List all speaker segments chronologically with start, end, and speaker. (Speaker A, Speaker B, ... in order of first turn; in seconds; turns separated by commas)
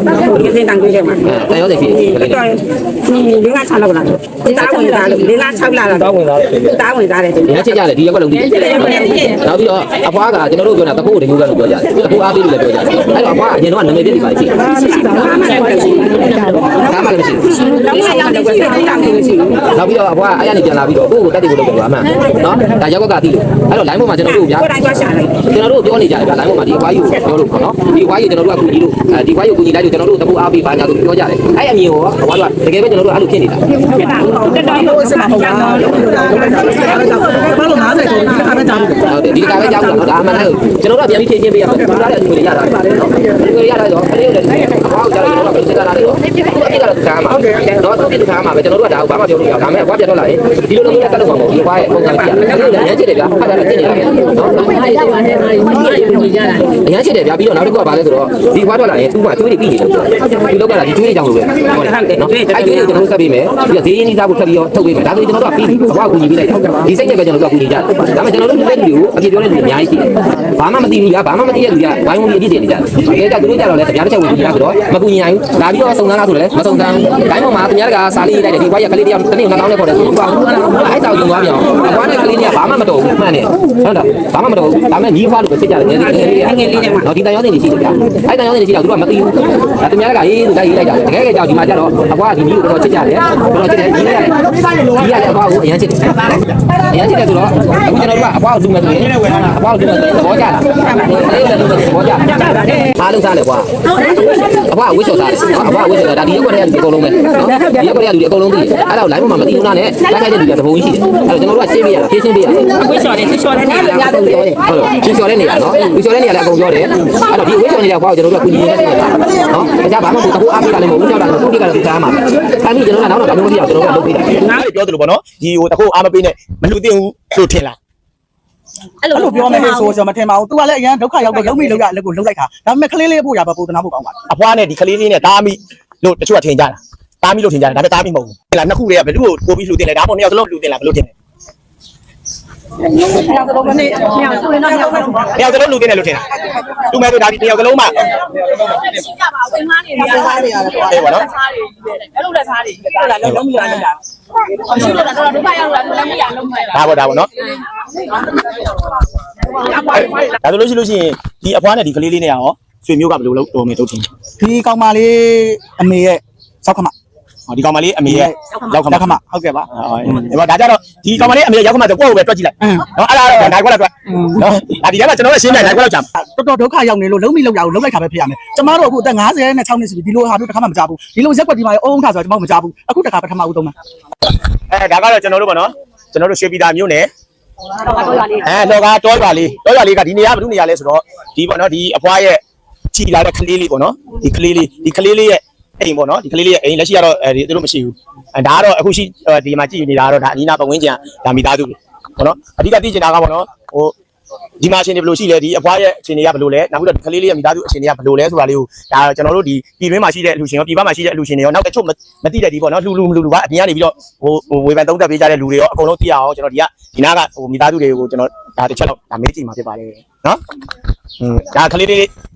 Speaker A: 0.3-0.6, Speaker B: 0.4-1.2, Speaker A: 1.2-2.5, Speaker B: 2.2-2.6, Speaker B: 3.1-7.5, Speaker A: 4.7-5.3, Speaker A: 7.4-14.6, Speaker B: 8.6-9.2, Speaker B: 14.6-16.6, Speaker A: 16.8-17.6, Speaker B: 17.7-19.5, Speaker A: 19.7-33.6, Speaker B: 24.5-25.4, Speaker B: 33.9-35.8, Speaker C: 34.2-39.1, Speaker A: 39.0-55.2, Speaker B: 55.4-56.6, Speaker A: 56.8-94.4, Speaker A: 94.9-103.7, Speaker D: 98.9-99.3, Speaker A: 104.5-124.3, Speaker D: 124.4-127.8, Speaker C: 129.1-134.2, Speaker D: 134.3-141.1, Speaker C: 143.3-145.2, Speaker D: 145.2-146.2, Speaker D: 146.9-147.9, Speaker C: 149.9-150.9, Speaker D: 150.9-151.3, Speaker C: 152.8-153.9, Speaker D: 156.7-157.3, Speaker D: 159.9-164.1, Speaker C: 164.4-166.9, Speaker D: 167.5-169.2, Speaker C: 168.1-169.7, Speaker D: 169.7-176.1, Speaker C: 175.5-183.7, Speaker D: 184.7-187.1, Speaker D: 188.2-192.4, Speaker D: 192.9-203.9, Speaker D: 204.6-220.4, Speaker D: 221.2-222.1